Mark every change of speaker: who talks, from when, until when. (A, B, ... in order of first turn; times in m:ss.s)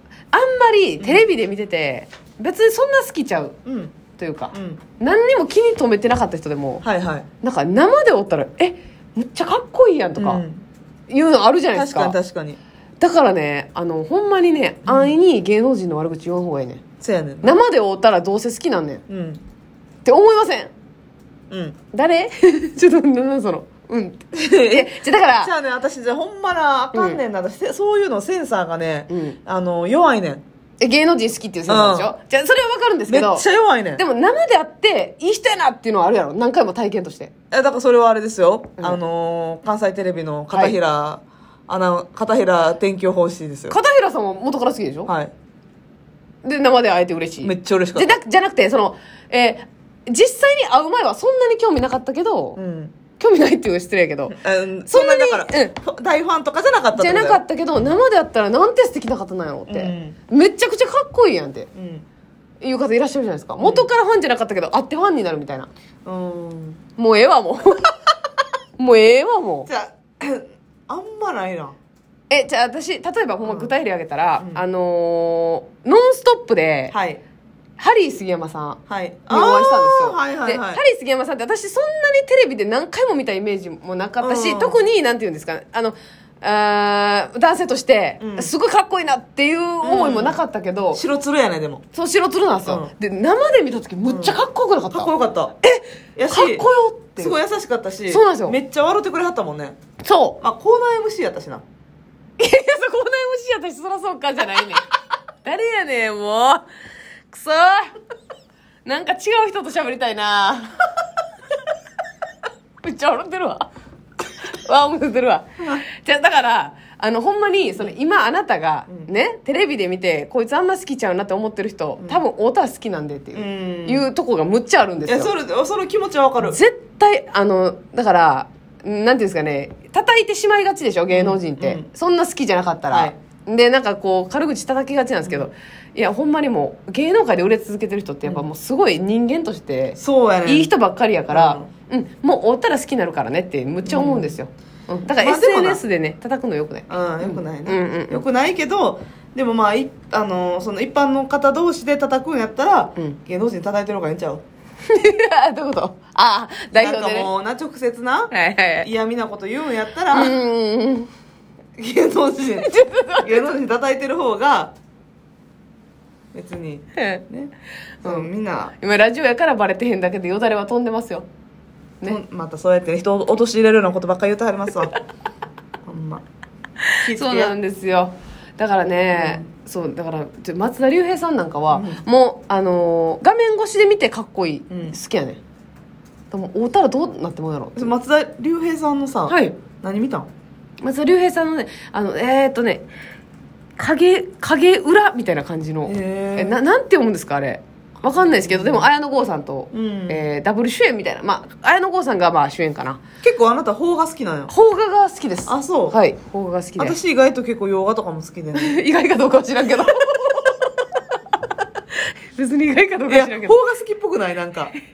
0:00.3-0:03.6 A
0:01.0-0:01.2 B
0:03.6-0:04.0 B
0:04.2-0:06.8 A
0:04.5-0:04.8 B
0:06.8-0:07.3 B
0:07.4-0:10.4 A
0:10.2-0:10.6 B
0:11.1-0:12.2 A
0:11.7-0:12.6 B
0:13.0-0:16.8 A
0:14.8-0:15.2 B
0:17.0-0:17.6 B
0:17.4-0:19.0 A
0:19.1-0:19.4 B
0:20.0-0:20.7 A
0:21.5-0:21.8 B
0:21.9-0:25.5 A
0:24.3-0:30.4 B
0:26.9-0:27.2 A
0:29.1-0:29.4 A
0:30.8-0:37.3 A
0:31.7-0:32.1 B
0:33.1-0:34.0 B
0:37.5-0:43.8 B
0:40.5-0:40.8 A
0:43.7-0:45.1 A
0:45.1-0:45.3 B
0:46.4-0:52.6 A
0:47.4-0:48.1 B
0:52.6-0:52.9 B
0:53.2-0:54.4 A
0:54.3-0:57.9 B
0:54.9-0:55.8 A
0:56.9-1:01.7 A
0:59.7-1:00.2 B
1:01.8-1:02.1 B
1:02.6-1:05.7 A
1:03.6-1:03.9 B
1:06.0-1:06.8 B
1:07.0-1:08.0 A
1:08.8-1:09.7 A
1:09.7-1:11.8 B
1:12.3-1:16.9 A
1:13.4-1:13.7 B
1:16.9-1:17.2 B
1:17.8-1:31.0 A
1:18.9-1:20.8 B
1:24.2-1:24.8 B
1:28.2-1:28.5 B
1:29.8-1:30.4 B
1:30.9-1:31.8 B
1:31.9-1:35.1 A
1:32.7-1:32.9 B
1:34.0-1:35.6 B
1:35.6-1:37.4 A
1:36.2-1:39.8 B
1:38.1-1:38.6 A
1:40.0-1:40.4 A
1:40.4-1:41.6 B
1:42.4-1:44.8 A
1:45.4-1:46.6 A
1:47.3-1:47.9 A
1:48.8-1:50.8 A
1:52.8-1:53.7 A
1:54.4-2:05.3 A
2:03.3-2:04.1 B
2:05.1-2:06.6 B
2:06.4-2:28.2 A
2:11.1-2:11.9 B
2:12.9-2:13.1 B
2:20.0-2:20.7 B
2:21.3-2:21.7 B
2:23.8-2:24.4 B
2:25.2-2:25.8 B
2:26.9-2:34.4 B
2:34.9-2:37.3 A
2:36.7-2:40.4 B
2:38.3-2:38.9 A
2:40.1-2:41.1 A
2:41.8-2:44.7 B
2:42.6-2:43.6 A
2:46.3-2:47.5 B
2:46.9-2:47.2 A
2:48.0-2:48.3 A
2:48.0-2:48.8 B
2:48.8-2:51.3 A
2:52.0-2:54.9 B
2:55.8-2:56.2 B
2:57.0-3:05.4 A
2:57.0-2:57.6 B
2:59.1-2:59.5 B
3:01.7-3:02.0 B
3:04.7-3:05.0 B
3:06.3-3:07.9 A
3:07.8-3:10.3 B
3:09.3-3:09.6 A
3:10.8-3:12.9 A
3:13.8-3:23.0 A
3:15.8-3:16.6 B
3:18.0-3:18.9 B
3:19.7-3:20.3 B
3:23.2-3:24.5 B
3:24.5-3:27.0 A
3:25.5-3:26.0 B
3:26.8-3:28.8 B
3:28.6-3:30.6 A
3:32.3-3:33.6 A
3:33.1-3:34.7 B